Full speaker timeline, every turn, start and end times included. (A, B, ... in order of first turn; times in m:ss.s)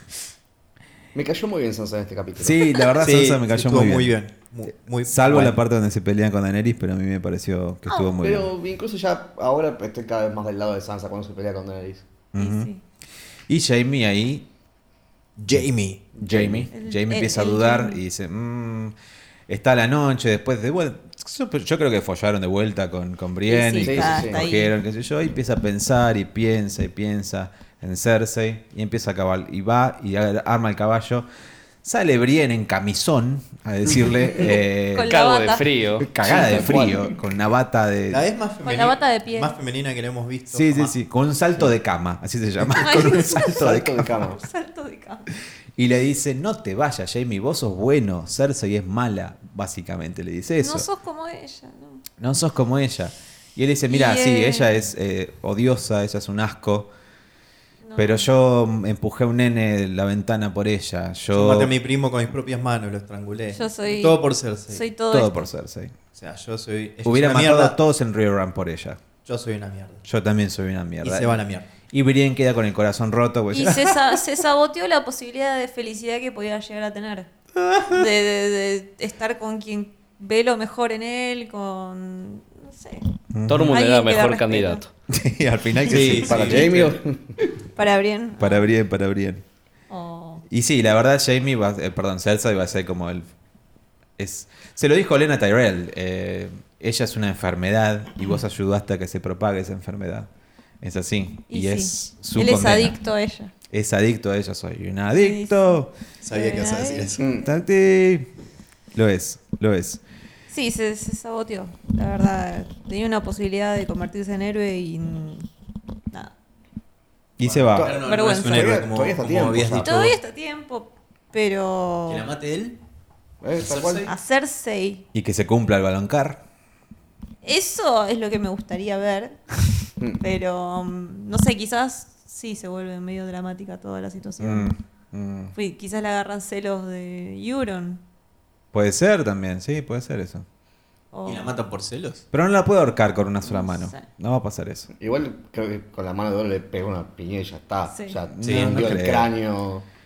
0:01.1-0:02.6 A
0:02.4-0:04.2 B
0:03.0-0:05.6 C
0:05.0-0:08.5 B
0:07.9-0:08.2 D
0:08.2-0:12.1 A
0:12.3-0:12.7 B
0:12.4-0:12.8 D
0:13.5-0:14.4 B
0:15.4-0:16.0 C
0:16.2-0:16.7 A
0:16.2-0:18.9 B
0:16.7-0:18.0 D
0:19.5-0:31.2 B
0:23.4-0:24.7 D
0:23.8-0:24.5 A
0:31.8-0:35.1 B
0:34.9-0:35.6 D
0:35.1-0:36.1 E
0:36.0-0:38.2 B
0:36.2-0:37.1 A
0:38.1-0:40.9 C
0:38.6-0:39.5 D
0:40.5-0:44.1 B
0:42.8-0:45.3 D
0:43.1-0:44.4 A
0:45.8-0:50.9 B
0:50.6-0:52.0 D
0:52.2-0:56.9 B
0:53.9-0:54.9 D
0:57.8-0:58.3 D
0:58.0-1:01.7 B
1:01.3-1:04.8 C
1:03.5-1:05.4 D
1:05.1-1:05.9 B
1:06.1-1:07.8 C
1:07.0-1:09.0 B
1:09.2-1:10.0 C
1:10.0-1:14.0 B
1:11.0-1:11.7 C
1:13.5-1:17.3 D
1:17.8-1:23.0 D
1:23.3-1:23.7 B
1:23.5-1:24.9 E
1:23.6-1:24.8 D
1:25.1-1:26.7 B
1:25.8-1:26.9 C
1:25.9-1:26.8 E
1:26.0-1:27.4 A
1:27.8-1:28.7 D
1:28.4-1:29.4 B
1:29.9-1:30.4 D
1:30.5-1:33.3 B
1:34.2-1:40.3 B
1:40.8-1:43.0 B
1:41.5-1:43.5 D
1:43.7-1:45.9 B
1:45.1-1:47.1 D
1:46.2-1:47.3 C
1:47.2-1:47.5 A
1:47.4-1:48.3 B
1:48.9-1:50.0 B
1:50.5-1:55.5 D
1:57.4-1:58.0 B
1:57.4-2:00.2 C
1:57.7-1:59.9 A
1:58.0-1:58.8 D
1:59.8-2:02.2 D
2:02.1-2:02.8 C
2:03.4-2:04.1 A
2:03.6-2:04.1 C
2:04.0-2:05.0 D
2:05.1-2:06.4 B
2:07.4-2:14.7 D
2:14.4-2:15.5 B
2:15.5-2:18.0 D
2:18.7-2:20.4 B
2:21.1-2:21.5 D
2:21.2-2:22.2 C
2:22.3-2:24.9 B
2:23.4-2:24.0 D
2:25.0-2:29.8 A
2:27.9-2:28.2 D
2:28.3-2:29.3 B
2:28.4-2:28.8 C